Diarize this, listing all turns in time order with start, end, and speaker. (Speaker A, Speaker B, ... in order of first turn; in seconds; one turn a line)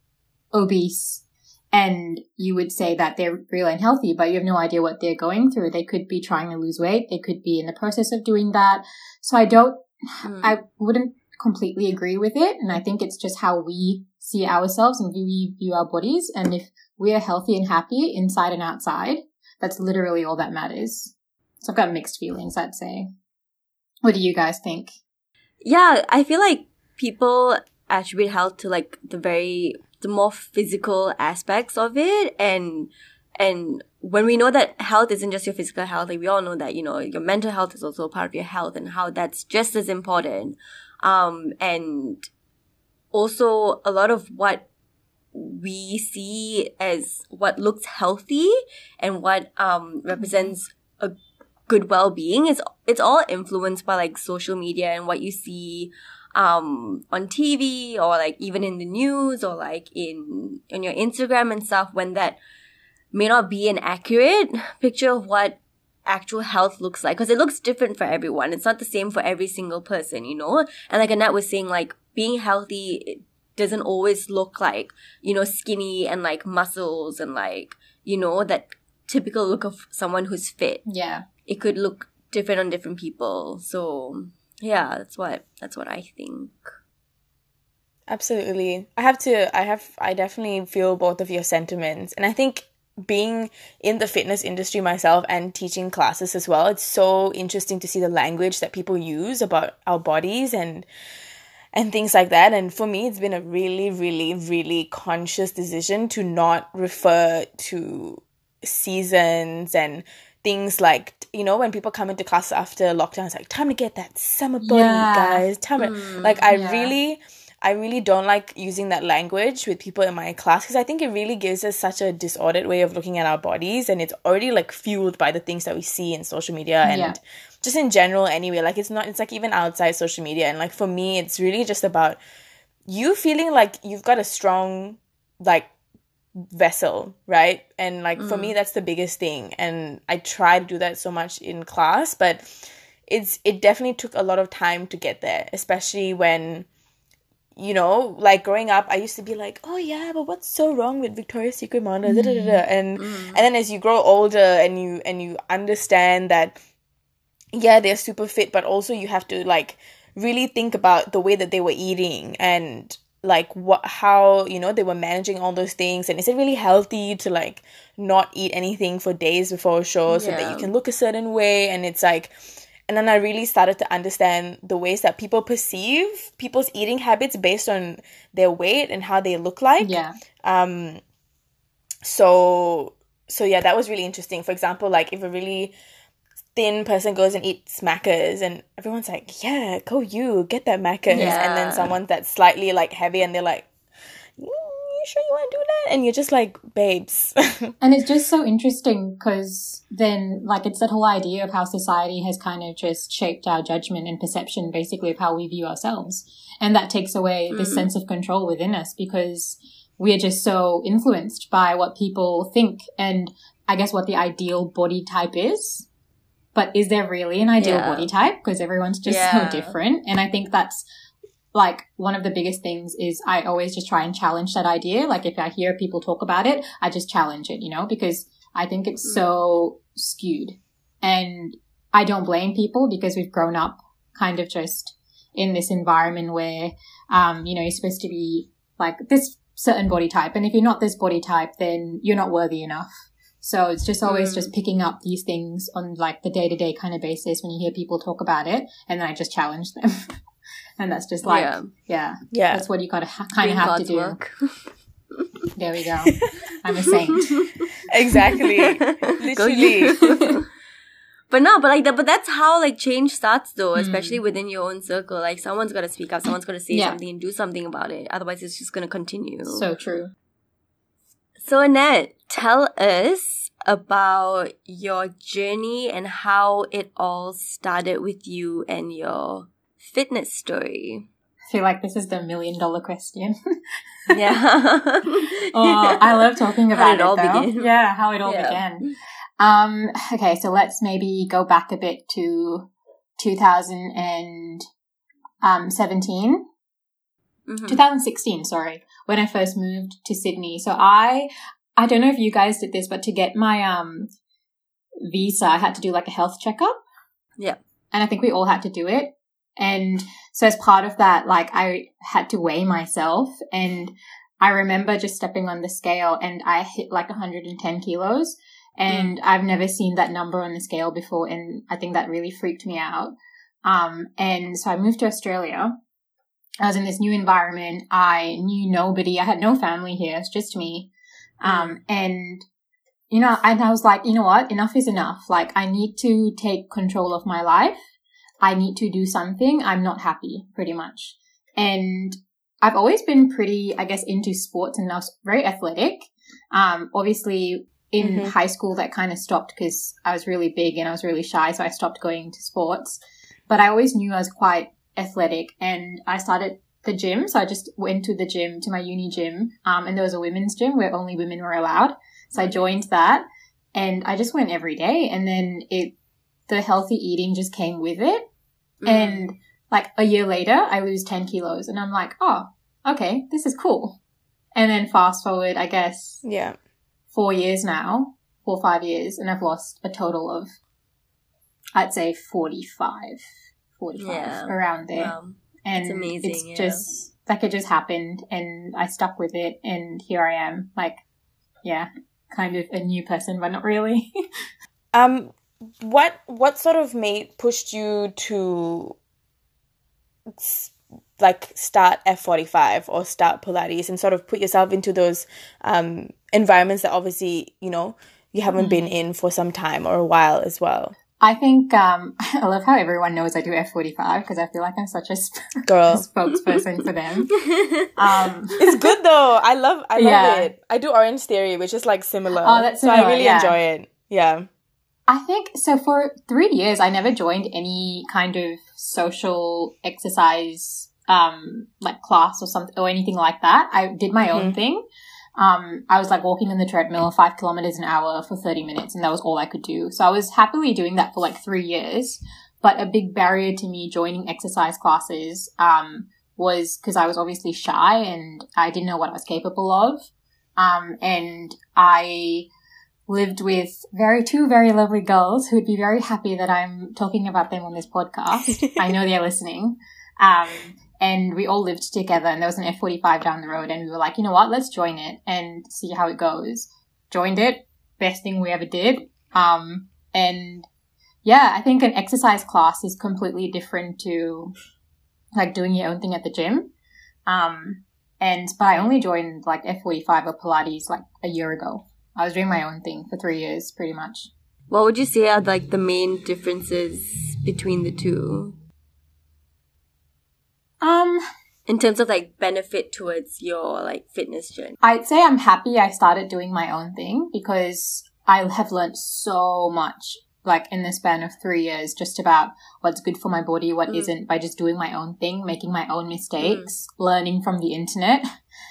Speaker A: 0.5-23.1
Speaker B: 10.2-10.6
Speaker A: 24.0-24.9
Speaker B: 25.6-42.3
Speaker B: 43.1-44.6
Speaker B: 45.3-51.1
Speaker A: 50.2-50.5
Speaker B: 51.7-62.4
Speaker B: 63.1-80.8
Speaker A: 80.9-81.2
Speaker B: 81.5-86.7
Speaker C: 88.1-100.9
Speaker C: 101.7-132.2
Speaker A: 114.6-115.4
Speaker B: 115.8-116.4
Speaker A: 116.5-116.9
Speaker A: 126.8-127.2
Speaker C: 132.9-135.7
Speaker C: 136.5-146.7
Speaker B: 138.2-138.5
Speaker C: 147.6-156.6
Speaker A: 152.0-152.6
Speaker B: 153.0-153.4
Speaker C: 157.5-172.3
Speaker B: 170.1-170.7
Speaker C: 172.9-181.0
Speaker A: 179.8-180.1
Speaker C: 182.0-185.7
Speaker C: 186.5-193.7
Speaker B: 191.1-191.9
Speaker A: 191.1-191.4
Speaker C: 194.4-197.7
Speaker A: 197.8-215.9
Speaker B: 207.5-207.9
Speaker A: 216.5-220.8
Speaker B: 217.6-218.1
Speaker B: 219.1-219.8
Speaker A: 221.5-242.9
Speaker A: 243.4-250.0
Speaker B: 244.0-244.5
Speaker A: 250.8-254.2
Speaker B: 251.2-251.7
Speaker C: 252.3-252.7
Speaker B: 253.4-254.6
Speaker A: 255.6-257.3
Speaker B: 256.9-257.7
Speaker C: 257.9-260.0
Speaker B: 258.4-260.4
Speaker B: 261.3-269.7
Speaker A: 263.7-264.2
Speaker A: 266.7-267.0
Speaker A: 269.4-270.1
Speaker B: 271.4-281.1
Speaker A: 281.5-283.4
Speaker B: 284.1-287.7
Speaker A: 285.5-288.9
Speaker B: 288.2-288.9
Speaker A: 289.4-294.6
Speaker A: 295.4-296.4
Speaker B: 297.5-297.8
Speaker A: 297.7-304.1
Speaker A: 305.1-306.8
Speaker A: 307.9-325.8
Speaker B: 318.9-319.1
Speaker A: 326.6-330.9
Speaker A: 331.4-332.4
Speaker B: 331.4-331.8
Speaker A: 333.1-337.8
Speaker A: 338.4-365.9
Speaker C: 348.0-348.3
Speaker A: 366.5-368.3
Speaker B: 368.8-369.3
Speaker A: 368.8-374.0
Speaker A: 374.5-376.2
Speaker C: 376.2-376.6
Speaker A: 377.1-380.5
Speaker A: 381.7-383.2
Speaker A: 383.8-391.0
Speaker B: 384.0-386.8
Speaker A: 391.6-394.1
Speaker C: 394.9-399.0
Speaker C: 400.4-410.9
Speaker A: 408.6-408.8
Speaker A: 411.2-417.3
Speaker C: 415.6-416.1
Speaker B: 417.3-418.3
Speaker A: 417.9-418.6
Speaker C: 418.6-424.5
Speaker A: 419.9-420.5
Speaker A: 422.4-423.6
Speaker A: 425.1-434.8
Speaker A: 435.4-450.1
Speaker A: 450.6-452.5
Speaker A: 453.1-470.7
Speaker A: 471.2-474.5
Speaker A: 475.4-476.7
Speaker A: 477.3-484.3
Speaker B: 484.7-488.6
Speaker A: 490.8-491.2
Speaker B: 491.7-494.8
Speaker A: 494.8-508.2
Speaker B: 506.4-506.7